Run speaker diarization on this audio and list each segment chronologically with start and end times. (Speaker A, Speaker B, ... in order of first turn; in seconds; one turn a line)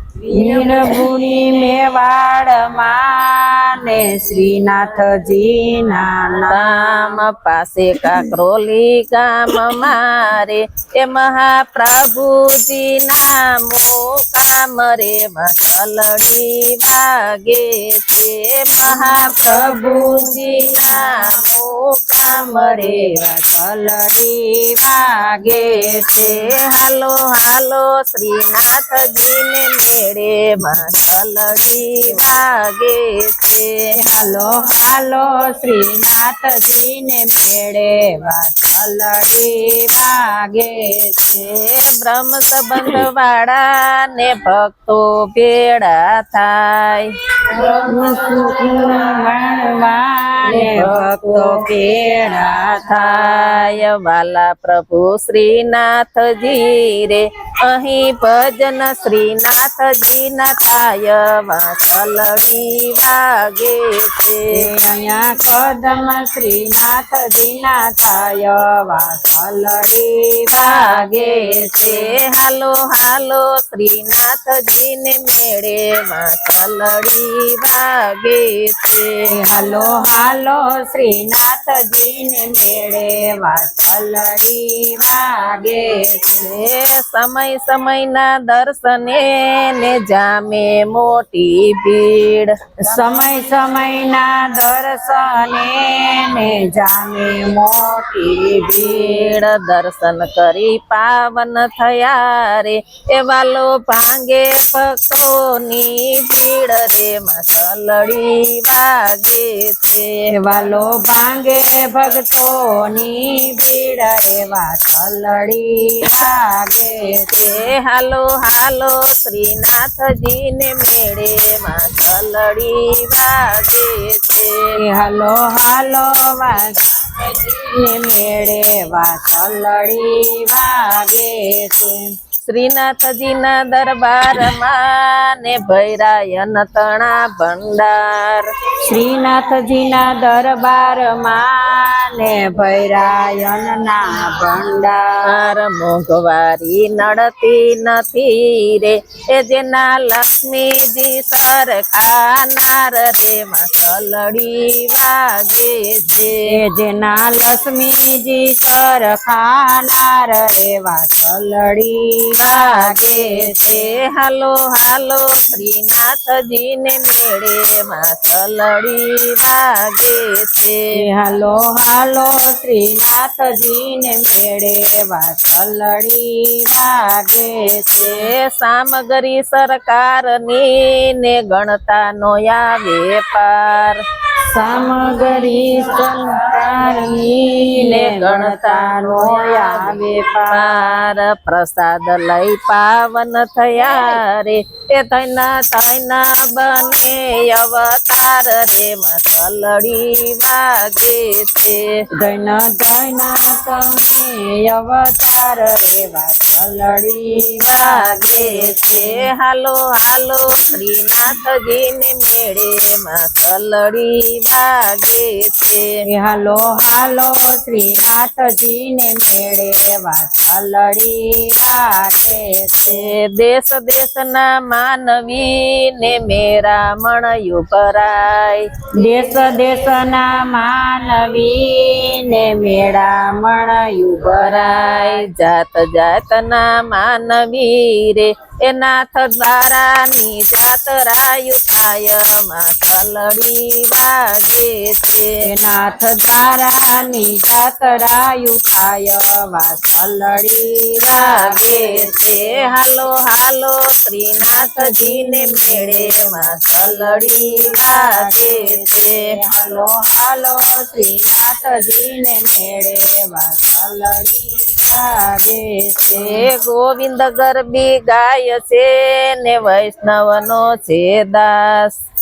Speaker A: 0.3-7.2
Speaker B: 0.3-1.0
Speaker B: 6.5-23.2
Speaker A: 18.9-21.4
Speaker A: 22.2-26.5
Speaker B: 25.4-33.9
Speaker A: 30.6-30.9
Speaker A: 34.0-41.4
Speaker B: 41.3-47.1
Speaker A: 47.5-53.7
Speaker B: 50.5-51.6
Speaker B: 52.8-64.5
Speaker A: 64.5-72.1
Speaker B: 70.5-79.2
Speaker A: 79.3-86.5
Speaker B: 86.4-92.5
Speaker A: 92.8-99.4
Speaker B: 98.8-110.1
Speaker A: 110.3-117.6
Speaker B: 117.3-124.7
Speaker A: 124.8-132.0
Speaker B: 132.4-138.5
Speaker A: 138.8-145.3
Speaker B: 145.3-156.4
Speaker A: 156.4-163.9
Speaker B: 162.4-170.9
Speaker A: 170.9-178.3
Speaker B: 178.0-184.0
Speaker A: 184.5-190.9
Speaker B: 187.8-190.0
Speaker B: 190.5-202.0
Speaker A: 202.2-209.2
Speaker B: 207.6-215.9
Speaker A: 216.1-223.1
Speaker B: 222.8-228.7
Speaker A: 229.0-235.2
Speaker B: 234.3-245.3
Speaker A: 245.4-252.6
Speaker B: 251.0-259.3
Speaker A: 254.4-266.4
Speaker B: 266.1-271.9